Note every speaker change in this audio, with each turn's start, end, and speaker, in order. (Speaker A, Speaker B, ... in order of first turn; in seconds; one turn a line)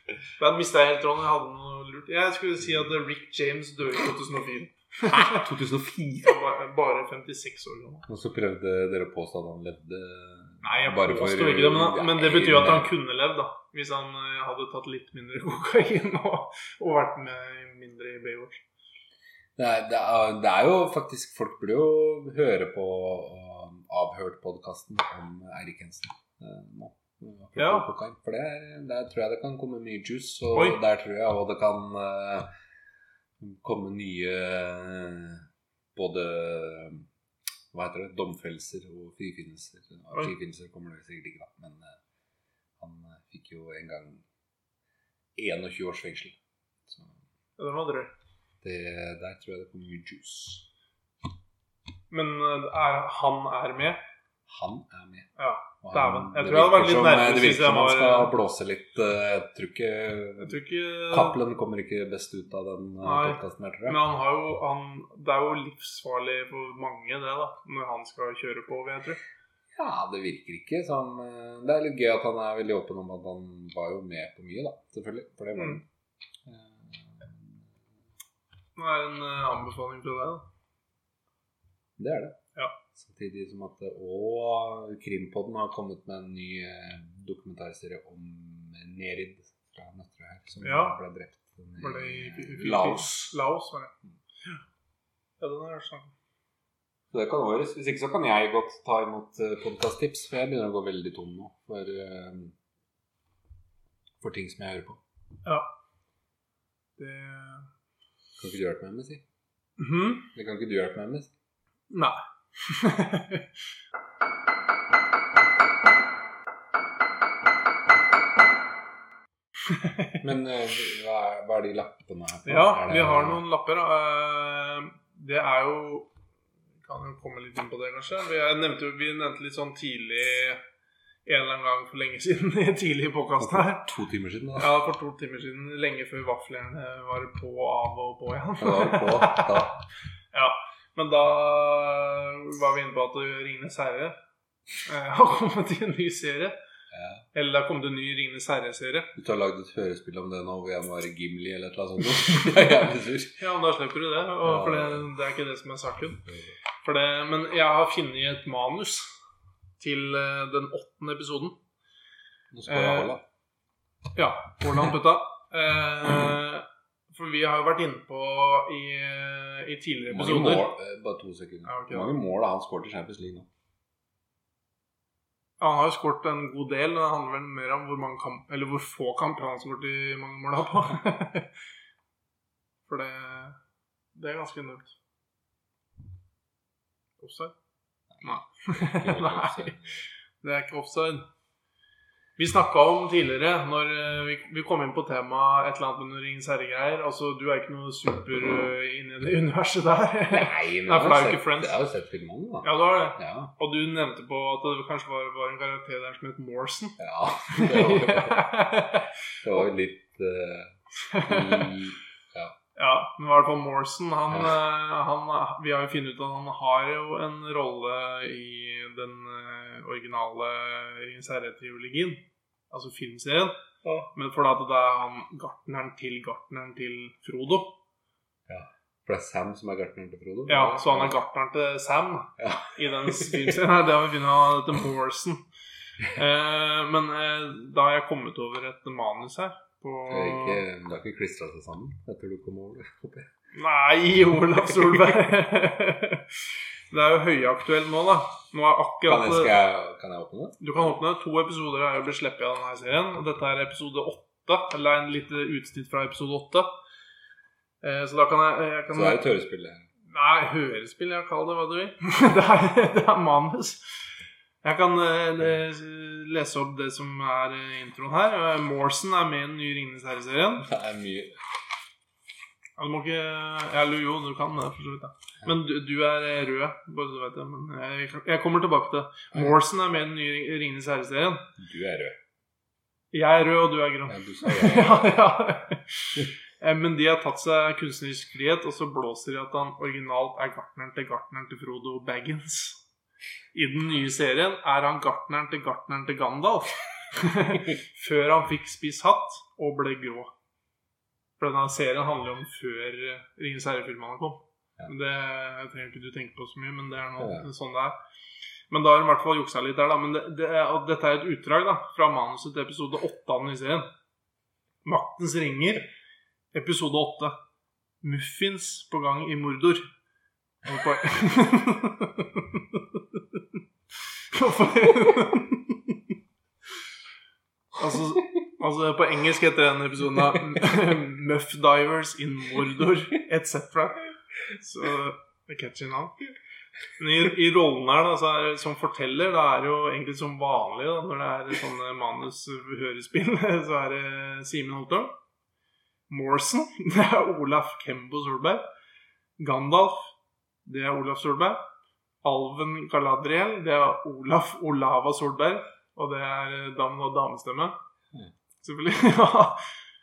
Speaker A: 0.4-5.4
Speaker B: 5.0-6.4
Speaker A: 6.2-8.1
Speaker B: 8.1-12.9
Speaker A: 10.6-18.6
Speaker B: 19.6-32.5
Speaker A: 27.6-27.9
Speaker A: 30.5-30.8
Speaker B: 33.4-37.1
Speaker B: 37.7-42.0
Speaker B: 42.8-44.2
Speaker B: 45.4-46.4
Speaker B: 46.9-47.2
Speaker A: 47.6-48.1
Speaker B: 48.6-50.7
Speaker A: 52.1-54.0
Speaker B: 54.5-55.3
Speaker A: 55.4-58.3
Speaker B: 55.8-60.6
Speaker A: 60.4-61.4
Speaker B: 61.1-64.0
Speaker A: 63.0-69.2
Speaker B: 69.8-75.8
Speaker A: 75.5-75.8
Speaker B: 76.5-77.7
Speaker A: 78.8-80.5
Speaker B: 82.0-82.4
Speaker B: 82.9-93.4
Speaker A: 90.6-91.0
Speaker A: 91.8-94.6
Speaker A: 95.4-96.1
Speaker B: 97.1-102.5
Speaker B: 104.2-105.0
Speaker A: 107.0-107.7
Speaker B: 108.4-109.2
Speaker A: 109.8-110.3
Speaker B: 110.3-111.3
Speaker A: 111.9-113.5
Speaker A: 119.7-120.2
Speaker B: 120.2-123.4
Speaker A: 122.5-126.1
Speaker A: 126.8-130.6
Speaker A: 131.3-133.9
Speaker B: 133.4-134.7
Speaker A: 134.6-139.5
Speaker B: 138.6-139.8
Speaker A: 140.3-144.2
Speaker A: 144.8-146.6
Speaker B: 146.9-147.3
Speaker A: 147.3-149.1
Speaker B: 149.2-153.4
Speaker A: 153.4-156.2
Speaker B: 154.4-155.1
Speaker B: 156.3-156.6
Speaker A: 156.8-159.1
Speaker A: 159.8-161.6
Speaker B: 162.5-163.2
Speaker A: 162.7-163.1
Speaker A: 164.2-170.7
Speaker B: 170.1-173.5
Speaker A: 171.7-172.2
Speaker A: 175.6-181.5
Speaker A: 182.9-183.6
Speaker A: 184.2-184.9
Speaker A: 187.2-187.5
Speaker B: 188.1-190.0
Speaker A: 188.2-189.8
Speaker A: 190.4-191.3
Speaker A: 192.4-201.8
Speaker B: 200.3-203.5
Speaker A: 202.6-207.0
Speaker B: 207.0-208.7
Speaker A: 207.5-209.1
Speaker B: 209.4-212.5
Speaker A: 211.1-211.8
Speaker A: 212.8-227.8
Speaker B: 214.3-214.6
Speaker B: 228.5-231.2
Speaker A: 230.5-235.4
Speaker B: 232.4-233.6
Speaker A: 236.1-240.6
Speaker B: 240.1-243.3
Speaker A: 243.5-249.5
Speaker B: 249.1-250.6
Speaker A: 250.6-256.7
Speaker A: 257.8-259.2
Speaker B: 258.9-259.9
Speaker A: 260.1-263.9
Speaker A: 264.6-270.7
Speaker B: 270.6-271.4
Speaker A: 272.8-281.5
Speaker B: 281.6-282.2
Speaker A: 283.1-292.8
Speaker B: 284.1-285.4
Speaker A: 293.5-300.3
Speaker A: 301.4-308.0
Speaker B: 307.2-307.5
Speaker A: 308.7-313.9
Speaker A: 314.8-315.9
Speaker A: 316.5-317.4
Speaker A: 318.0-319.9
Speaker A: 320.6-323.4
Speaker A: 324.3-326.0
Speaker A: 327.8-336.2
Speaker A: 337.0-345.1
Speaker A: 346.1-348.6
Speaker A: 349.4-350.1
Speaker A: 350.6-351.6
Speaker A: 352.2-357.8
Speaker A: 358.6-359.6